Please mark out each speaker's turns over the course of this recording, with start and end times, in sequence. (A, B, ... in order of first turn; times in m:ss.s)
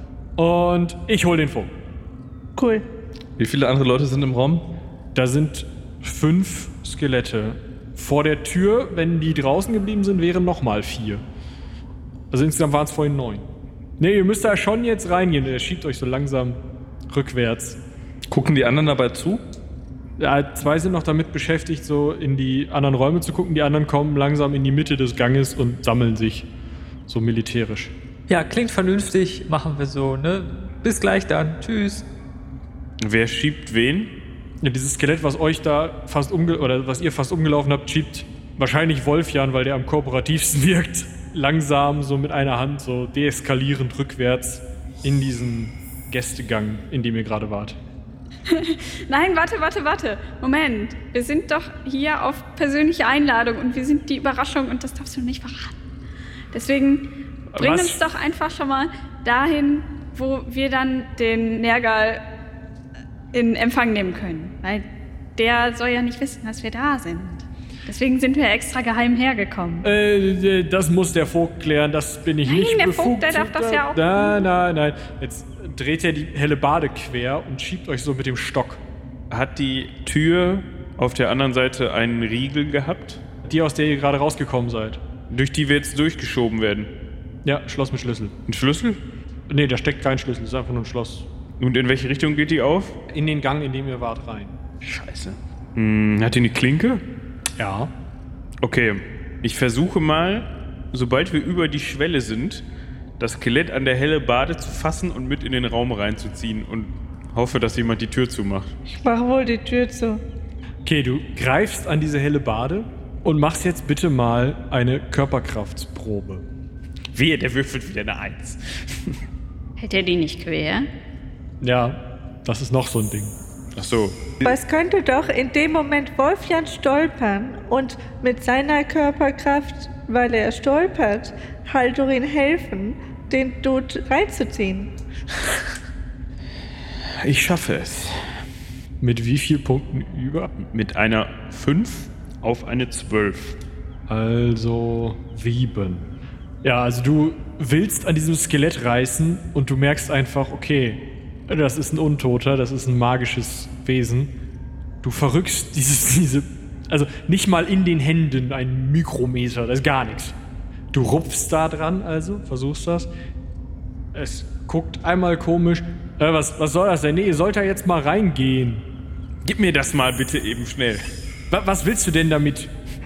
0:00.4-0:01.7 A
0:02.6-0:02.8 B
0:03.4-0:04.7 C
0:05.1-0:11.2 A
0:12.3-0:13.5 A
0:14.0-0:17.8 A
0:18.3-0:19.4 C
0:20.2-0:26.5 A
0:27.1-0:27.9 A
0:28.3-0:32.1 D
0:33.0-0:34.2 E
0:34.6-0:47.8 A
0:48.5-0:55.8 F
0:56.5-1:02.2 F
0:57.5-0:58.0 A
1:03.3-1:09.9 F
1:09.8-1:18.8 A
1:12.4-1:14.4 F
1:19.3-1:23.2 E
1:23.4-1:25.0 A
1:25.3-1:26.9 E
1:27.4-1:28.4 A
1:28.5-1:29.0 E
1:29.5-1:31.3 A
1:31.6-1:33.0 E
1:33.1-1:34.6 A
1:34.8-1:37.0 E
1:37.6-1:37.9 A
1:38.6-1:42.7 E
1:43.2-1:48.7 E
1:48.9-1:50.2 B
1:50.8-1:56.5 A
1:57.1-1:59.2 E
1:59.8-2:00.9 F
2:01.6-2:03.4 A
2:03.8-2:04.3 E
2:04.4-2:14.9 B
2:17.2-2:18.4 E
2:19.0-2:20.5 A
2:20.6-2:23.6 E
2:24.1-2:26.1 A
2:26.6-2:34.3 A
2:35.0-2:40.4 A
2:40.9-2:43.1 A
2:44.1-2:48.9 A
2:49.4-2:51.0 E
2:51.5-2:52.7 A